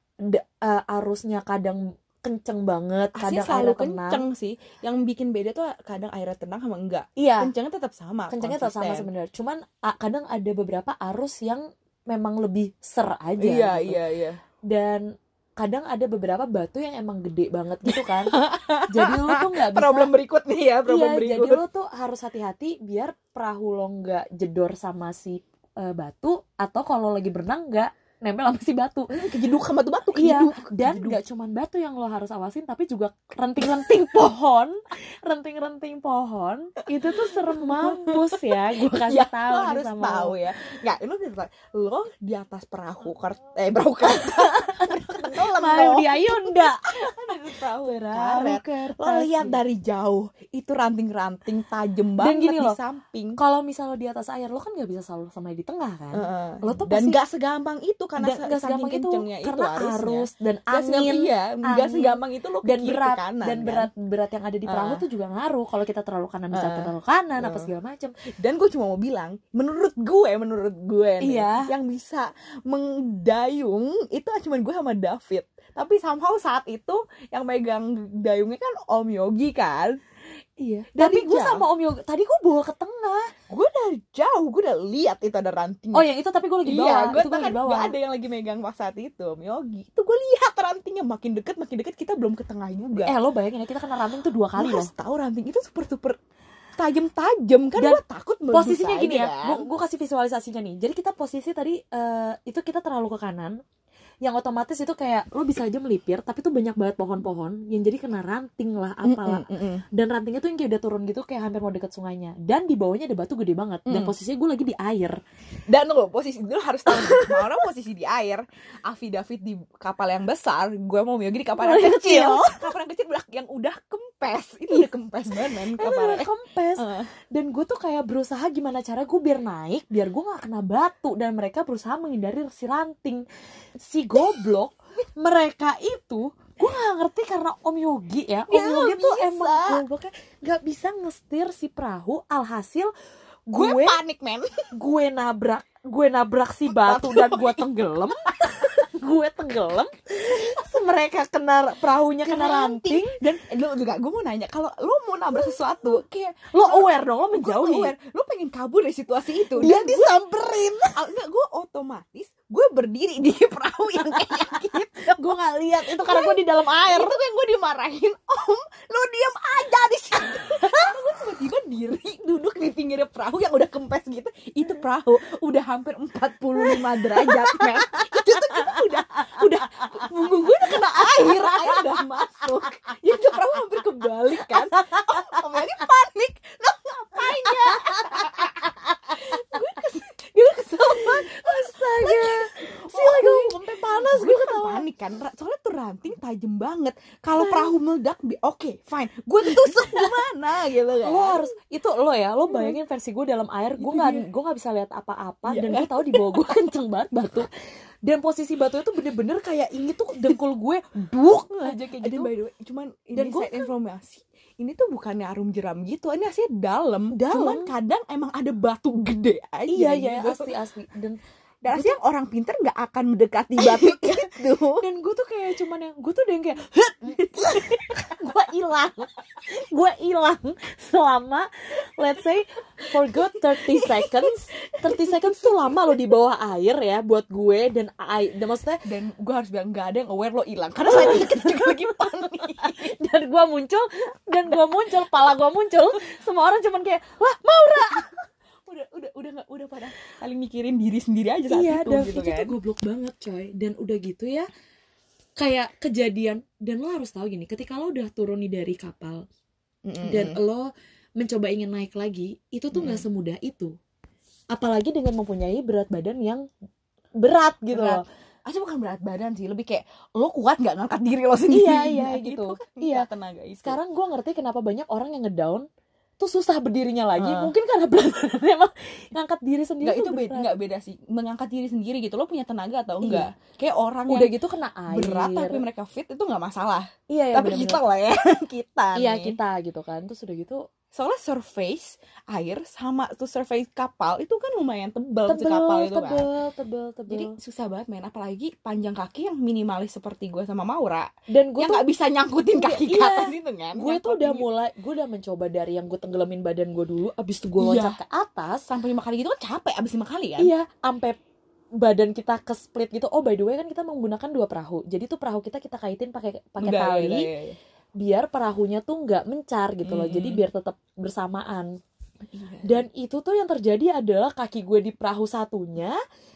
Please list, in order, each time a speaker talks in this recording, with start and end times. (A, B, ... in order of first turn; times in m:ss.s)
0:00.2-0:04.2 A
0:03.2-0:09.1 B
0:07.2-0:07.5 A
0:08.3-0:14.0 A
0:13.4-0:14.4 B
0:14.7-0:15.0 A
0:15.6-0:20.1 A
0:17.8-0:21.6 B
0:20.9-0:29.1 A
0:29.1-0:31.2 B
0:30.2-0:40.4 A
0:37.2-0:53.4 B
0:44.8-0:49.6 A
0:52.2-0:52.8 A
0:53.4-0:57.2 A
0:56.1-1:03.9 B
0:58.2-1:08.1 A
1:04.7-1:05.0 B
1:06.5-1:07.7 B
1:08.4-1:20.0 B
1:11.2-1:11.7 A
1:20.6-1:23.3 A
1:20.9-1:21.6 B
1:23.5-1:26.0 B
1:25.9-1:27.9 A
1:26.6-1:33.1 B
1:33.0-1:34.9 A
1:34.6-1:36.2 B
1:36.8-1:39.6 B
1:38.5-1:43.6 A
1:44.2-1:55.2 A
1:49.0-1:49.8 B
1:53.9-1:54.1 B
1:55.7-2:07.1 B
1:56.9-1:57.6 A
2:01.6-2:02.7 A
2:05.4-2:13.2 A
2:13.8-2:22.9 A
2:18.5-2:19.8 B
2:23.5-2:24.0 A
2:23.5-2:24.5 B
2:24.7-2:33.2 A
2:26.7-2:27.7 B
2:32.2-2:40.2 B
2:36.5-2:37.9 A
2:39.5-2:41.0 A
2:40.9-3:08.5 B
2:44.2-2:47.2 A
2:50.5-2:50.9 A
2:56.6-3:02.0 A
3:02.9-3:03.6 A
3:04.4-3:05.4 A
3:07.2-3:09.8 A
3:09.1-3:21.4 B
3:10.8-3:14.8 A
3:17.4-3:17.7 A
3:19.4-3:20.1 A
3:21.0-3:27.5 A
3:22.5-3:22.7 B
3:23.8-3:24.2 B
3:25.5-3:26.4 B
3:28.0-3:32.3 A
3:31.6-3:40.5 B
3:33.1-3:33.7 A
3:37.1-3:37.7 A
3:39.7-3:42.0 A
3:41.6-3:44.8 B
3:43.6-3:44.1 A
3:44.8-3:58.8 A
3:53.2-3:55.7 B
3:58.8-4:02.9 B
4:00.8-4:08.2 A
4:08.6-4:12.5 B
4:11.5-4:14.5 A
4:15.4-4:19.2 A
4:19.8-4:20.4 B
4:20.0-4:23.7 A
4:22.7-4:23.0 B
4:24.5-4:26.4 A
4:27.2-4:28.0 A
4:27.7-4:33.8 B
4:31.5-4:33.1 A
4:33.6-4:35.6 A
4:36.2-4:40.6 A
4:37.2-4:37.5 B
4:39.8-4:44.4 B
4:43.0-4:43.3 A
4:44.1-4:45.6 A
4:44.9-4:49.4 B
4:47.1-4:47.8 A
4:48.9-4:50.7 A
4:50.9-4:56.2 B
4:55.3-4:57.4 A
4:57.1-5:04.4 B
5:01.3-5:01.8 A
5:02.6-5:08.7 A
5:07.6-5:08.0 B
5:08.7-5:10.5 B
5:10.4-5:11.2 A
5:11.8-5:17.3 A
5:16.6-5:17.6 B
5:18.0-5:21.8 A
5:19.8-5:20.4 B
5:22.3-5:22.8 B
5:22.6-5:26.0 A